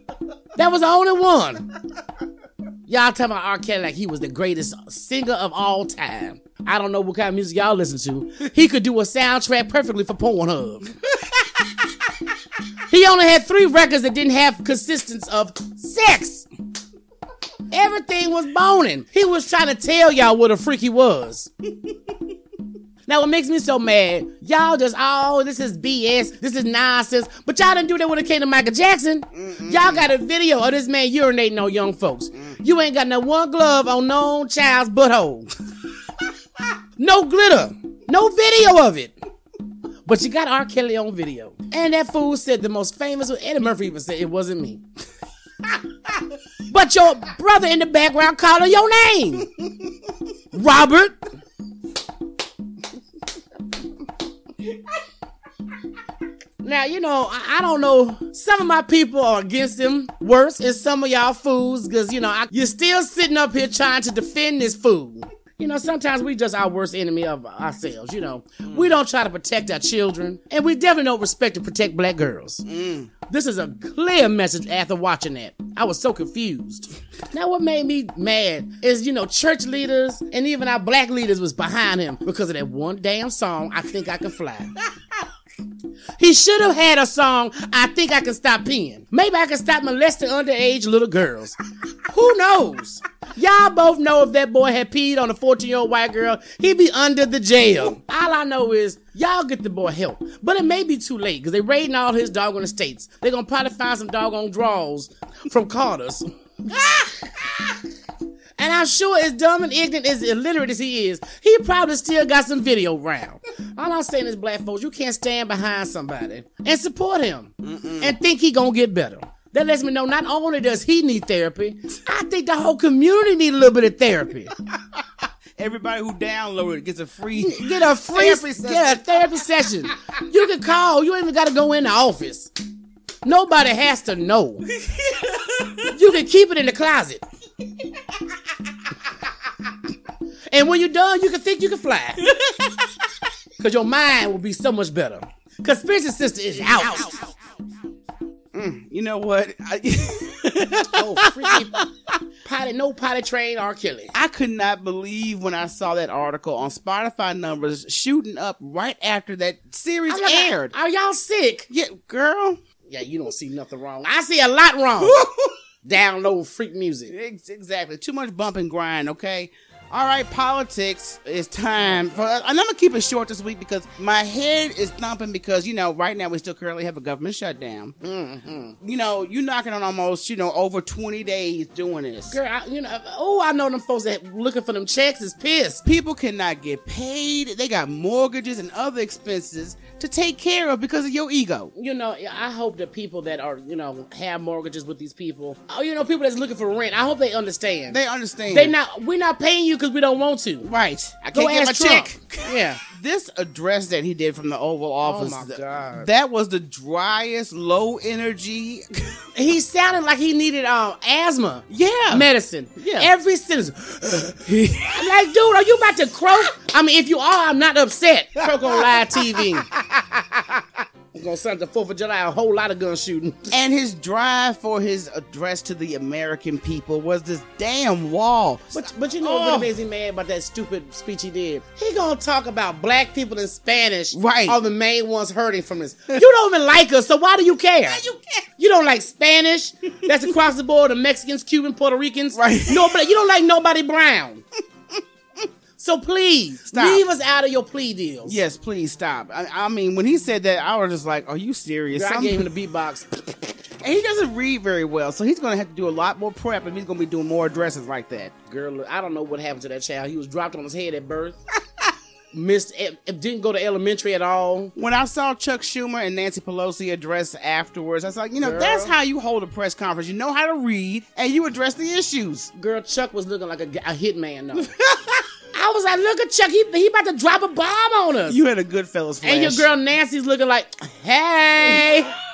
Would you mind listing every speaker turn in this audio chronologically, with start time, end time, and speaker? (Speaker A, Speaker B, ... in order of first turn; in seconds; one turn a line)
Speaker A: 0.6-1.6
Speaker A: 2.9-10.9
Speaker A: 12.9-16.5
Speaker A: 17.7-21.5
Speaker A: 23.1-35.5
Speaker B: 29.3-30.1
Speaker A: 37.0-39.1
Speaker A: 40.0-44.8
Speaker A: 46.7-49.5
Speaker A: 50.5-51.1
Speaker A: 56.6-72.6
Speaker B: 68.6-68.9
Speaker B: 72.7-73.1
Speaker A: 73.3-84.7
Speaker A: 86.2-91.6
Speaker A: 92.1-107.8
Speaker A: 108.6-124.5
Speaker B: 117.6-118.2
Speaker B: 125.6-129.3
Speaker A: 127.3-132.5
Speaker A: 133.2-134.6
Speaker B: 134.8-135.8
Speaker A: 135.9-137.2
Speaker A: 140.5-142.2
Speaker A: 143.6-147.2
Speaker B: 148.5-151.8
Speaker A: 150.9-151.8
Speaker A: 152.4-154.1
Speaker B: 154.1-160.7
Speaker A: 160.1-161.7
Speaker B: 161.7-162.6
Speaker A: 162.8-165.3
Speaker B: 165.0-165.6
Speaker A: 165.8-167.1
Speaker B: 167.1-177.9
Speaker A: 178.0-178.8
Speaker B: 178.8-182.4
Speaker A: 182.3-185.8
Speaker B: 185.8-191.7
Speaker A: 191.8-198.0
Speaker B: 197.9-198.7
Speaker A: 198.5-200.7
Speaker B: 200.6-209.0
Speaker A: 201.3-202.8
Speaker A: 205.0-206.1
Speaker A: 209.3-223.6
Speaker B: 211.7-212.3
Speaker B: 212.8-213.1
Speaker B: 214.5-215.1
Speaker B: 218.5-219.6
Speaker B: 223.5-229.7
Speaker A: 228.7-238.0
Speaker B: 234.1-234.6
Speaker A: 238.6-244.4
Speaker B: 242.3-242.9
Speaker A: 245.8-248.4
Speaker B: 246.7-247.0
Speaker B: 248.2-252.5
Speaker A: 251.9-253.3
Speaker B: 253.8-258.3
Speaker A: 258.5-261.4
Speaker A: 262.3-264.7
Speaker B: 264.8-272.5
Speaker A: 268.4-268.9
Speaker A: 272.5-274.7
Speaker B: 274.6-275.2
Speaker A: 275.5-278.4
Speaker B: 278.3-279.7
Speaker A: 279.2-282.1